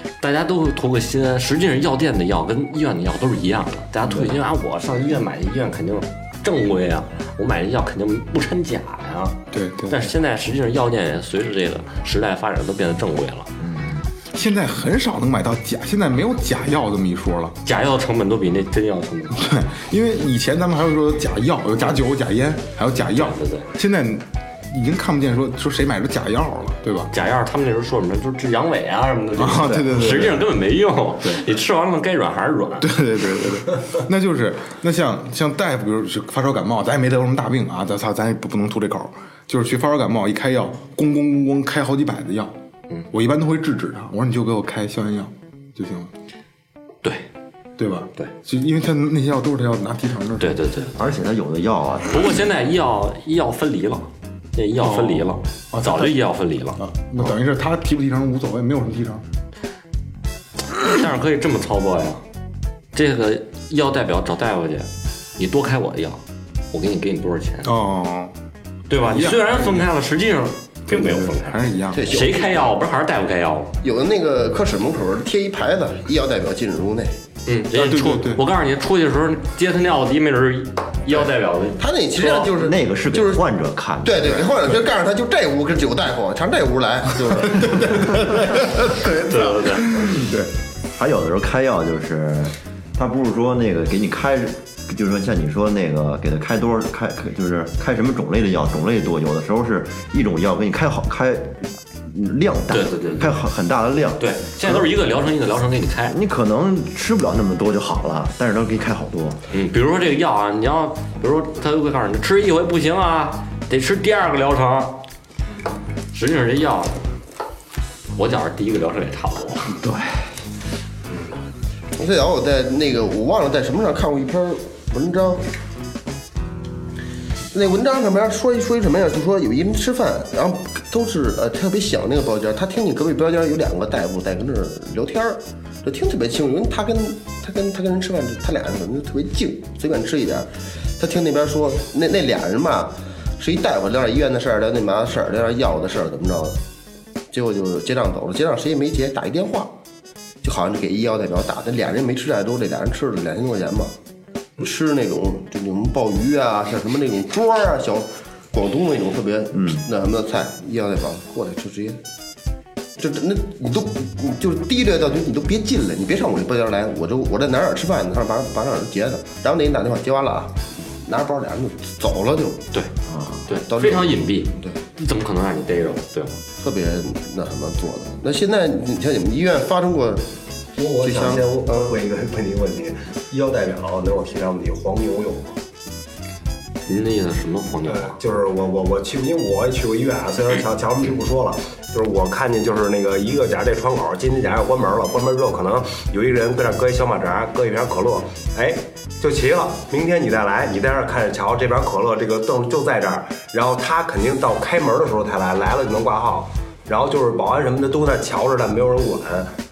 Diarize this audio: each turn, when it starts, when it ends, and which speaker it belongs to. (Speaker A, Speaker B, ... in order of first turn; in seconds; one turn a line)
Speaker A: 0.2-13.5
Speaker B: 9.5-10.1
Speaker C: 13.6-14.0
Speaker B: 14.3-17.6
Speaker A: 17.6-19.5
Speaker B: 19.3-27.1
Speaker A: 23.1-23.7
Speaker A: 27.1-32.9
Speaker B: 29.3-30.5
Speaker B: 32.8-42.5
Speaker B: 43.1-46.1
Speaker B: 47.8-50.5
Speaker A: 50.4-51.0
Speaker C: 51.0-52.4
Speaker A: 52.1-56.8
Speaker B: 54.8-56.2
Speaker B: 56.8-59.2
Speaker A: 60.8-62.2
Speaker A: 62.9-67.7
Speaker B: 67.6-68.3
Speaker A: 68.9-73.7
Speaker B: 69.0-69.8
Speaker B: 70.9-72.2
Speaker D: 71.9-72.5
Speaker D: 73.8-77.1
Speaker A: 77.5-82.5
Speaker B: 77.7-78.4
Speaker D: 81.8-83.5
Speaker C: 82.5-84.5
Speaker D: 84.0-90.3
Speaker A: 89.2-90.0
Speaker B: 90.1-90.4
Speaker C: 91.0-104.8
Speaker A: 102.7-103.4
Speaker A: 104.2-106.2
Speaker C: 106.1-109.4
Speaker A: 109.5-115.0
Speaker A: 116.1-117.0
Speaker A: 118.2-119.7
Speaker D: 122.0-125.4
Speaker D: 127.5-146.6
Speaker D: 147.3-149.7
Speaker D: 150.4-153.9
Speaker D: 154.6-162.0
Speaker C: 159.5-159.8
Speaker D: 163.0-172.6
Speaker C: 173.1-173.4
Speaker A: 173.5-176.4
Speaker D: 173.6-174.8
Speaker D: 176.6-180.3
Speaker E: 180.8-185.6
Speaker D: 181.0-181.9
Speaker A: 186.9-188.1
Speaker E: 187.8-209.5